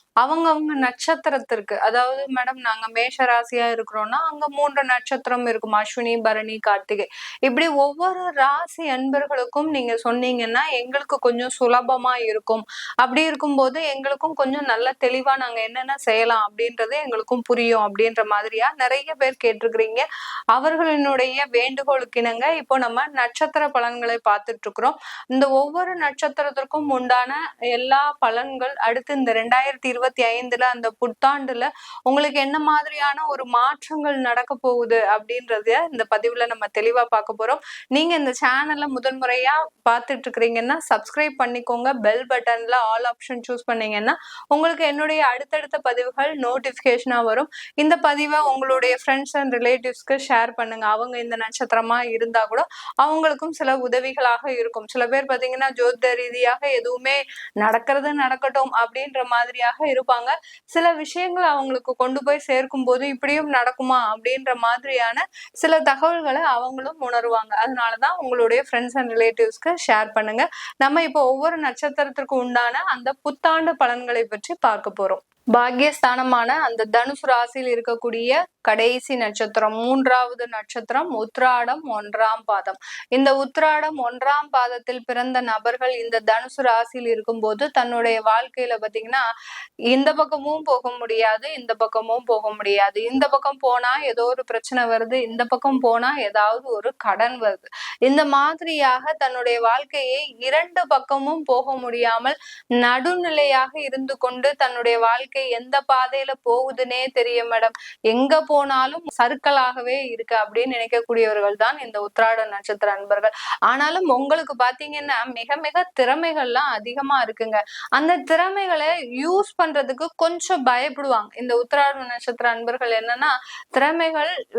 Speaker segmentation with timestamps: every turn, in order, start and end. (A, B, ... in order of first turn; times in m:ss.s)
0:00.2-1:29.2 A
1:29.9-2:04.3 A